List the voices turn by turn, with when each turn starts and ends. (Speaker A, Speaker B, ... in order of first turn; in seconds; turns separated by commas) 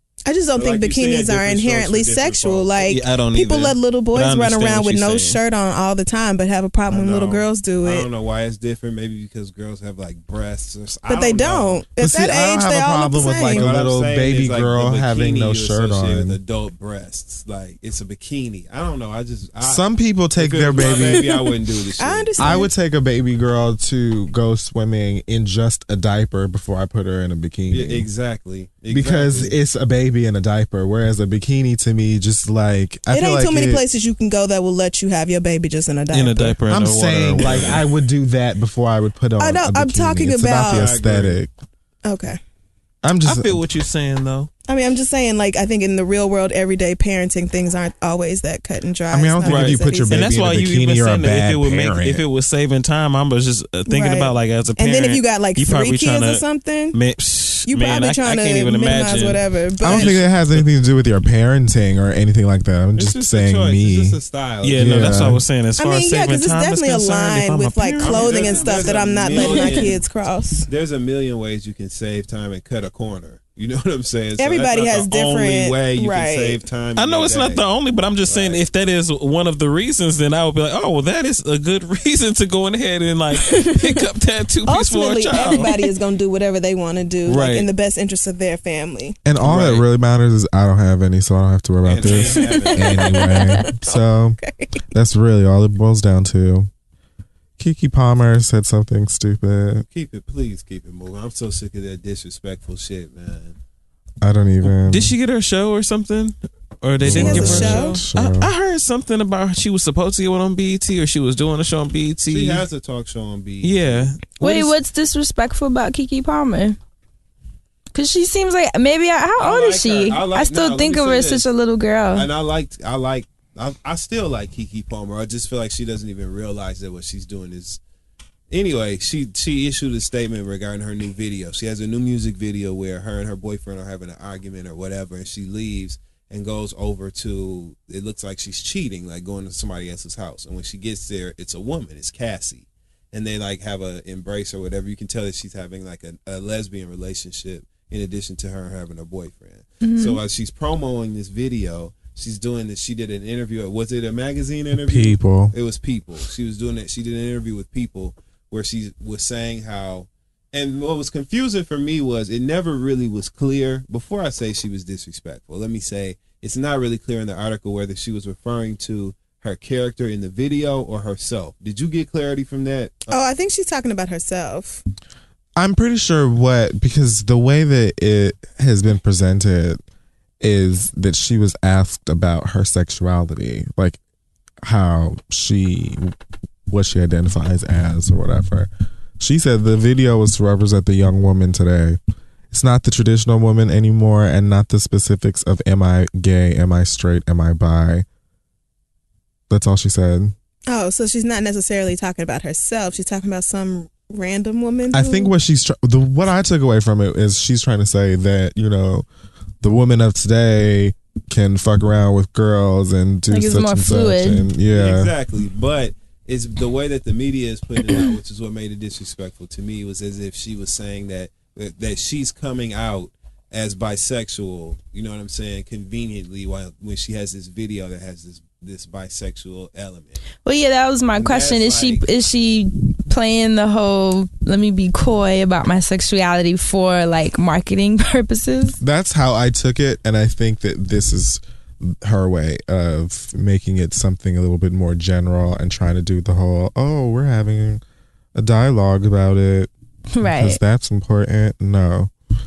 Speaker A: 0.2-8.1, Speaker B: 0.5-2.9, Speaker C: 2.9-5.4, Speaker B: 6.9-11.8, Speaker A: 11.1-13.8, Speaker D: 12.0-16.4, Speaker B: 13.5-19.8, Speaker D: 19.6-21.4, Speaker B: 20.4-22.6, Speaker A: 20.8-21.4, Speaker A: 22.0-22.7, Speaker D: 22.4-28.1, Speaker B: 27.7-29.5, Speaker D: 28.9-33.8, Speaker A: 33.1-36.6, Speaker C: 36.1-37.8, Speaker D: 36.7-41.5, Speaker B: 37.4-37.8, Speaker A: 39.4-41.0, Speaker B: 40.6-41.4, Speaker A: 42.0-42.4, Speaker D: 43.0-43.6, Speaker C: 43.2-44.5, Speaker A: 44.7-50.3, Speaker D: 49.1-52.2, Speaker C: 49.4-60.6, Speaker A: 53.9-57.0, Speaker A: 57.7-60.1, Speaker D: 59.8-64.2, Speaker B: 63.0-65.2, Speaker C: 64.6-68.7, Speaker D: 64.7-65.4, Speaker A: 65.8-70.7, Speaker B: 68.0-70.0, Speaker C: 69.3-69.7, Speaker B: 70.7-77.6, Speaker A: 74.4-76.6, Speaker C: 77.0-85.8, Speaker B: 78.2-78.6, Speaker A: 83.5-83.8, Speaker A: 84.7-89.2, Speaker C: 87.2-87.7, Speaker D: 89.2-94.4, Speaker C: 89.4-89.8, Speaker B: 91.8-93.2, Speaker A: 92.0-94.8, Speaker D: 94.9-96.7, Speaker D: 97.6-99.8, Speaker B: 99.9-103.6, Speaker D: 104.2-105.1, Speaker C: 104.6-112.6, Speaker D: 107.0-108.5, Speaker A: 107.0-108.0, Speaker B: 112.2-114.1, Speaker C: 113.6-114.7, Speaker E: 114.4-116.8, Speaker E: 117.9-122.3, Speaker B: 119.4-121.5, Speaker B: 122.1-127.8, Speaker B: 128.5-173.1, Speaker E: 149.8-150.2, Speaker D: 154.7-155.5, Speaker A: 173.1-174.8, Speaker D: 175.6-179.8, Speaker D: 180.4-184.0, Speaker D: 184.6-186.1, Speaker D: 186.7-192.0, Speaker D: 192.5-198.0, Speaker D: 199.5-200.3, Speaker A: 200.7-205.3, Speaker D: 204.9-209.1, Speaker D: 209.6-215.1, Speaker E: 213.3-214.5, Speaker B: 214.7-230.2, Speaker E: 230.4-238.8, Speaker B: 231.1-232.1, Speaker D: 238.8-247.8, Speaker D: 248.3-249.7, Speaker E: 250.1-250.6, Speaker D: 250.2-252.1